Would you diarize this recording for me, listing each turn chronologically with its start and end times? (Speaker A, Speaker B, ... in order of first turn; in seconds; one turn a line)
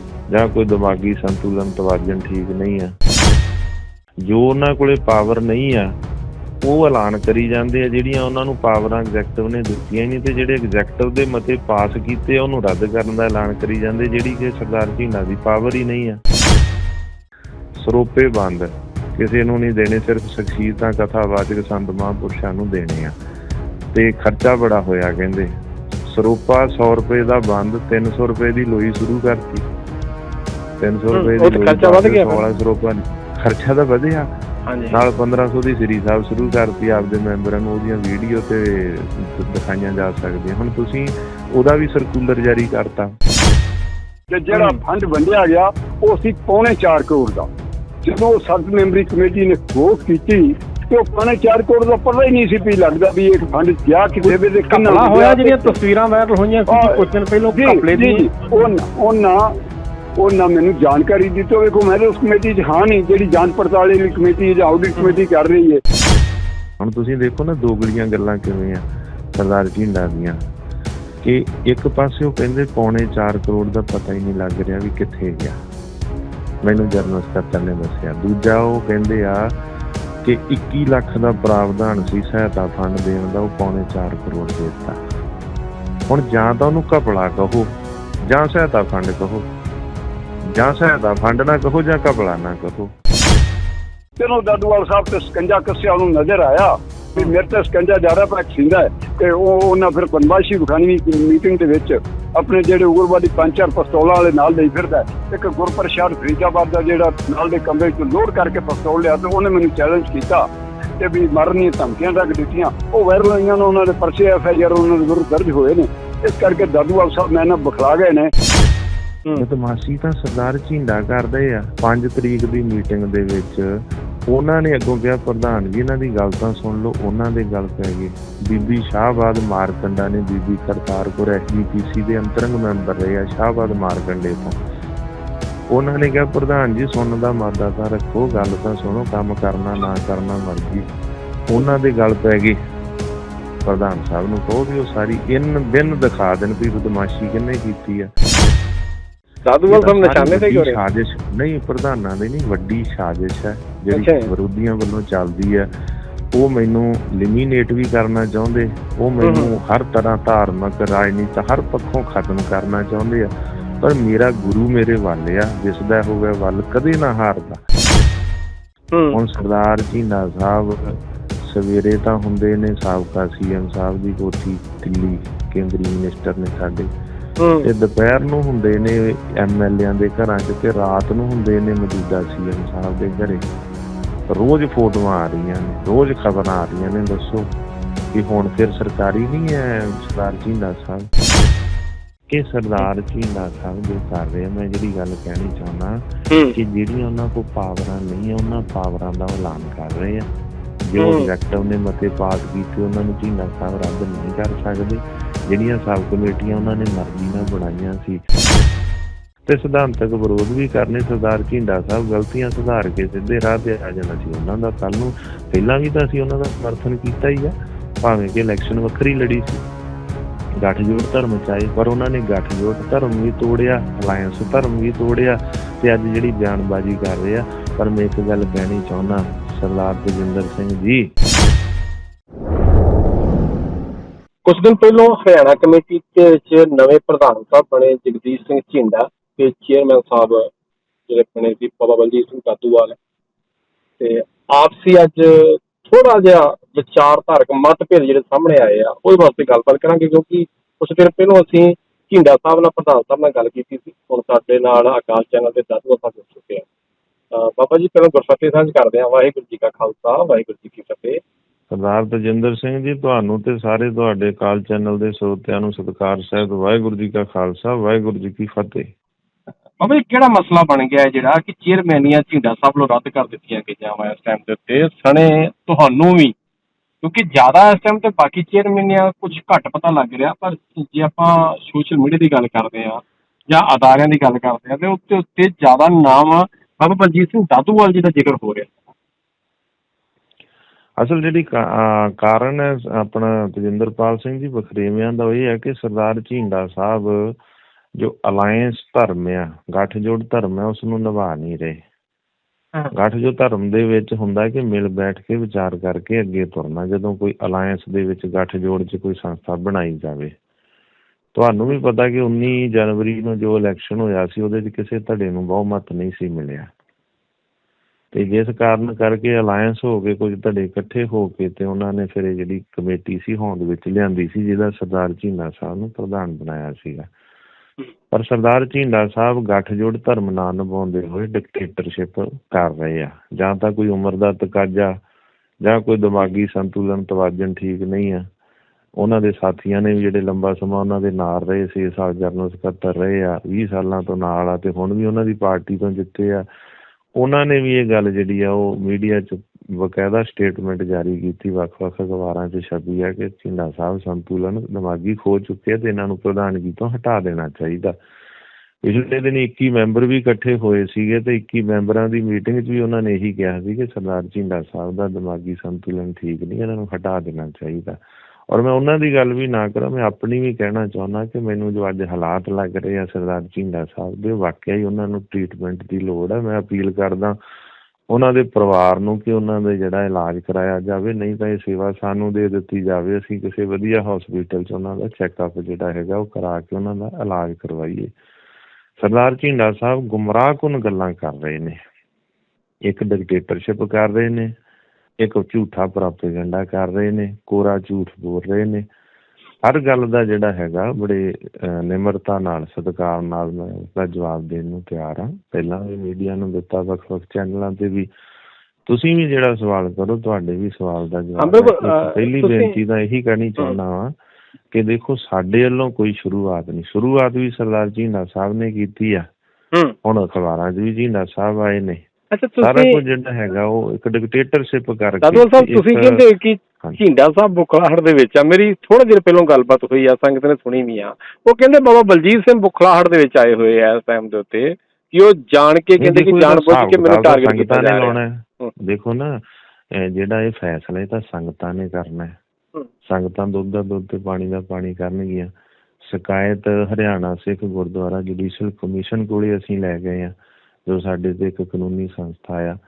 Speaker A: 0.3-2.9
Speaker A: 4.3-6.0
Speaker A: 6.6-16.2
Speaker A: 17.8-23.1
Speaker A: 23.9-25.6
Speaker A: 26.1-29.6
Speaker A: 30.8-34.3
Speaker B: 31.1-32.4
Speaker B: 34.7-35.0
Speaker A: 34.9-43.1
Speaker C: 44.3-47.5
Speaker B: 44.5-44.8
Speaker C: 48.0-55.8
Speaker B: 54.2-58.6
Speaker C: 56.7-59.5
Speaker C: 60.2-65.8
Speaker A: 66.8-70.4
Speaker A: 71.2-75.6
Speaker A: 76.6-79.6
Speaker A: 80.2-85.0
Speaker A: 86.1-87.7
Speaker A: 88.3-89.5
Speaker A: 90.5-92.9
Speaker C: 94.2-110.5
Speaker C: 111.0-118.3
Speaker A: 119.4-134.6
Speaker A: 135.7-140.9
Speaker A: 141.5-142.6
Speaker A: 143.7-148.1
Speaker B: 149.4-150.8
Speaker A: 149.7-155.7
Speaker B: 153.9-154.3
Speaker A: 156.3-167.6
Speaker B: 159.2-159.5
Speaker B: 168.9-169.2
Speaker A: 169.1-176.9
Speaker B: 177.4-177.7
Speaker A: 177.6-183.4
Speaker A: 184.3-187.5
Speaker A: 188.1-191.1
Speaker A: 192.3-200.3
Speaker B: 196.3-196.6
Speaker A: 200.9-208.2
Speaker B: 201.0-201.3
Speaker A: 209.5-219.6
Speaker A: 220.6-231.1
Speaker B: 234.4-240.5
Speaker B: 241.1-243.0
Speaker B: 244.0-256.6
Speaker B: 257.3-261.2
Speaker A: 261.7-268.9
Speaker B: 269.8-276.3
Speaker B: 277.0-288.7
Speaker A: 291.0-297.4
Speaker A: 298.0-301.8
Speaker A: 302.9-310.3
Speaker A: 311.4-316.7
Speaker A: 318.1-327.1
Speaker A: 328.1-335.0
Speaker A: 335.6-338.3
Speaker A: 339.0-346.5
Speaker A: 347.2-358.0
Speaker A: 358.8-377.4
Speaker A: 378.1-388.1
Speaker A: 389.0-391.8
Speaker A: 392.9-394.5
Speaker A: 395.2-398.9
Speaker A: 399.6-408.1
Speaker A: 408.9-414.1
Speaker B: 411.4-412.8
Speaker A: 414.7-419.3
Speaker A: 420.0-422.0
Speaker B: 422.3-423.0
Speaker A: 422.6-426.2
Speaker B: 425.2-438.7
Speaker A: 436.0-439.4
Speaker A: 439.9-442.4
Speaker A: 443.1-445.5
Speaker A: 446.0-450.3
Speaker A: 450.9-452.8